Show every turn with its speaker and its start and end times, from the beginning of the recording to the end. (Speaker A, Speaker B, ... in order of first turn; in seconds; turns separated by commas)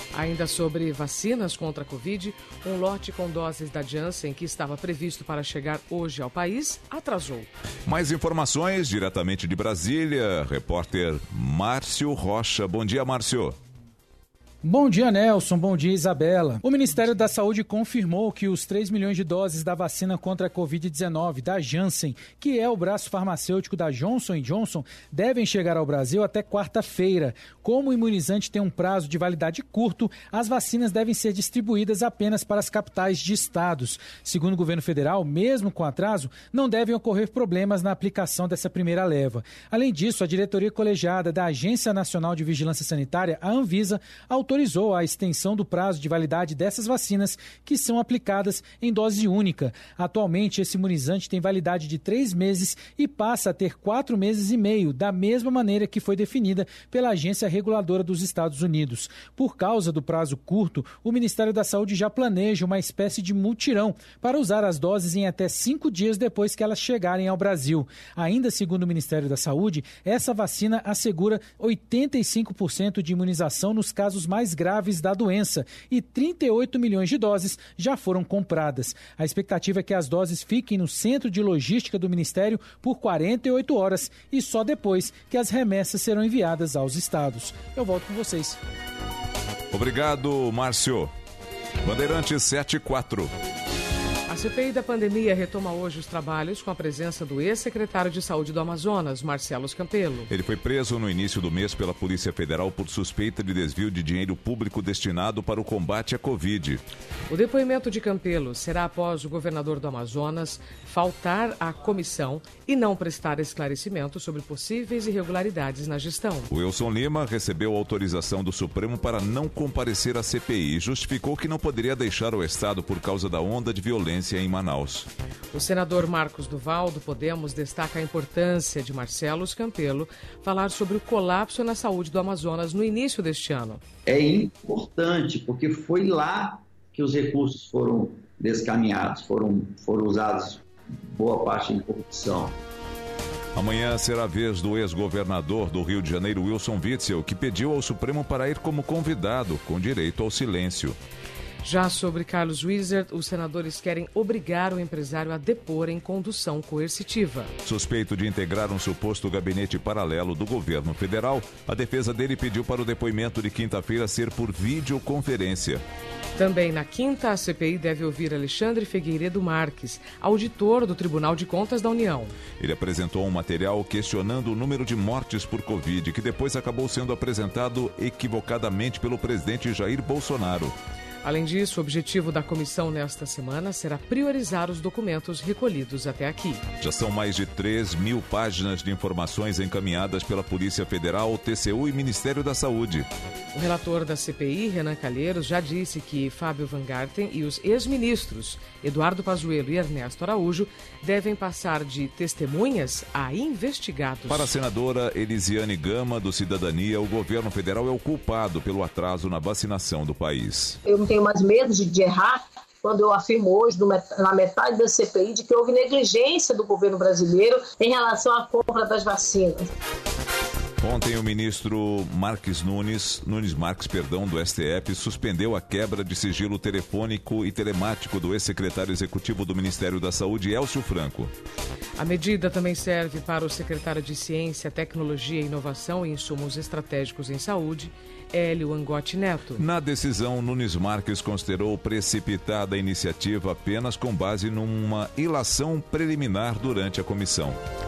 Speaker A: 0.1-7.5, Speaker B: 7.9-13.6, Speaker C: 14.6-88.6, Speaker B: 89.7-91.1, Speaker B: 91.8-93.3, Speaker A: 94.3-100.3, Speaker B: 100.3-106.8, Speaker A: 107.3-116.5, Speaker B: 116.5-125.1, Speaker A: 125.5-133.8, Speaker D: 134.1-142.5, Speaker B: 143.6-151.0, Speaker A: 151.6-157.5, Speaker B: 157.7-165.8, Speaker A: 166.4-172.3, Speaker B: 172.6-180.8, Speaker A: 181.2-186.6, Speaker B: 186.8-193.1, Speaker A: 193.5-204.5, Speaker B: 204.3-210.8, Speaker E: 210.9-219.7, Speaker B: 220.8-231.3, Speaker A: 232.0-239.6, Speaker B: 239.6-247.6